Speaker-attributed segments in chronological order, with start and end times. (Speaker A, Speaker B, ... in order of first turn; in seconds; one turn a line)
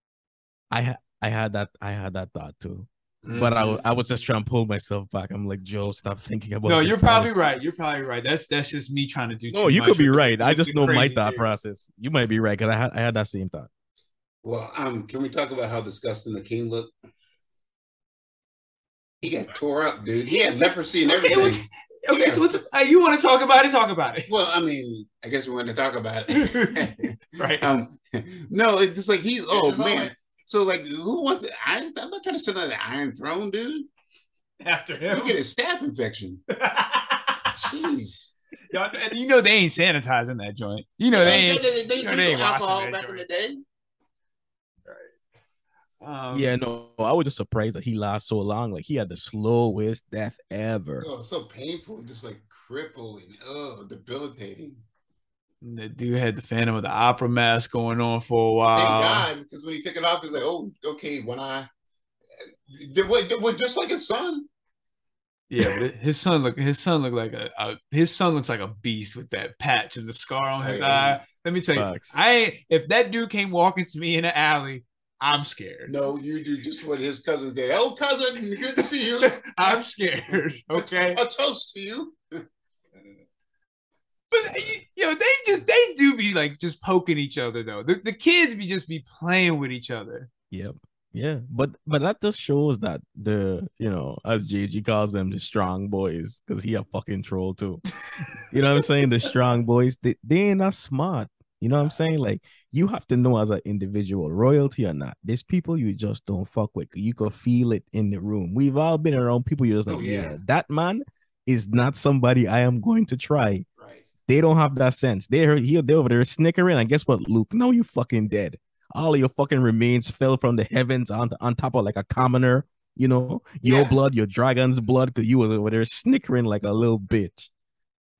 Speaker A: 0.7-7.4
Speaker B: 3.2-3.8
Speaker C: 6.6-11.4
Speaker A: 9.5-13.7
Speaker B: 14.4-16.9
Speaker B: 19.2-22.4
Speaker C: 21.0-24.3
Speaker B: 24.3-33.9
Speaker C: 26.3-27.7
Speaker C: 29.5-30.1
Speaker C: 34.6-35.4
Speaker B: 35.1-36.4
Speaker C: 36.5-37.5
Speaker B: 37.5-38.3
Speaker C: 38.7-43.2
Speaker B: 41.1-43.6
Speaker C: 44.9-45.1
Speaker C: 46.0-46.5
Speaker A: 46.3-51.1
Speaker B: 51.0-54.8
Speaker C: 55.6-59.3
Speaker B: 58.7-61.7
Speaker B: 62.7-64.5
Speaker C: 65.5-75.9
Speaker B: 70.6-71.2
Speaker A: 71.7-72.1
Speaker B: 75.9-79.8
Speaker C: 79.2-81.2
Speaker B: 80.7-82.2
Speaker C: 84.3-90.3
Speaker A: 90.5-97.8
Speaker A: 98.5-113.7
Speaker B: 109.9-110.3
Speaker B: 113.8-114.0
Speaker A: 114.3-127.5
Speaker B: 123.6-124.0